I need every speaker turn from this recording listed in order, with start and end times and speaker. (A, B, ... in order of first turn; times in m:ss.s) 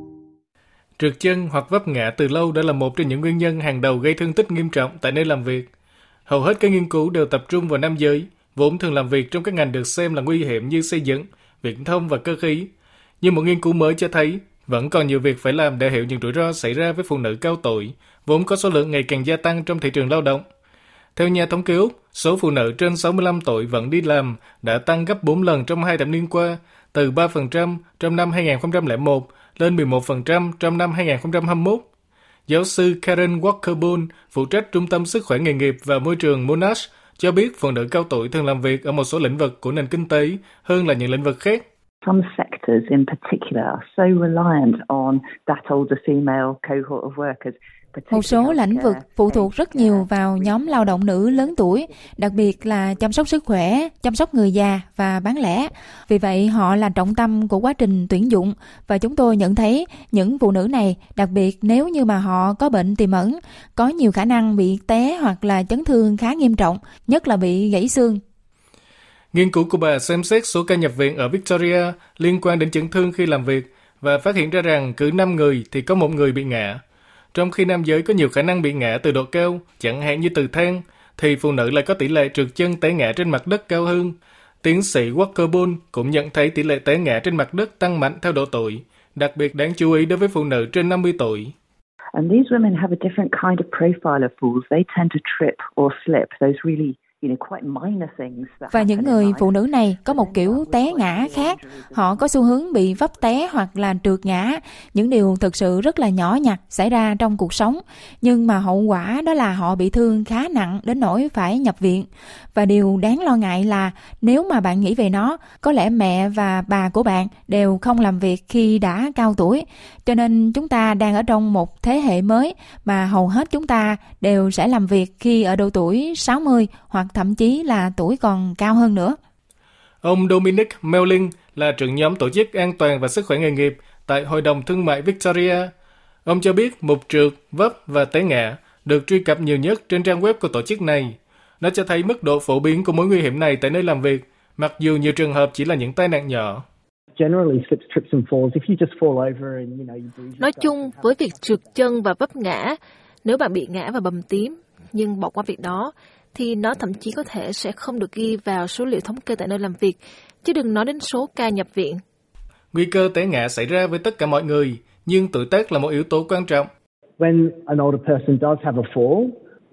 0:01.0-0:05.7 A
0:06.3-0:12.7 A
0:13.2-0:20.4 A
0:21.2-0:31.9 A
0:32.5-0:41.6 A
0:42.0-0:51.1 B
0:48.1-1:08.2 C
1:09.3-1:16.8 A
1:17.3-1:31.5 A
1:32.1-1:42.3 B
1:38.7-2:09.2 C
2:10.0-2:15.7 A
2:16.2-2:26.6 A
2:27.2-2:32.0 D
2:30.4-2:42.0 E
2:42.7-2:46.7 A
2:47.2-2:49.4 D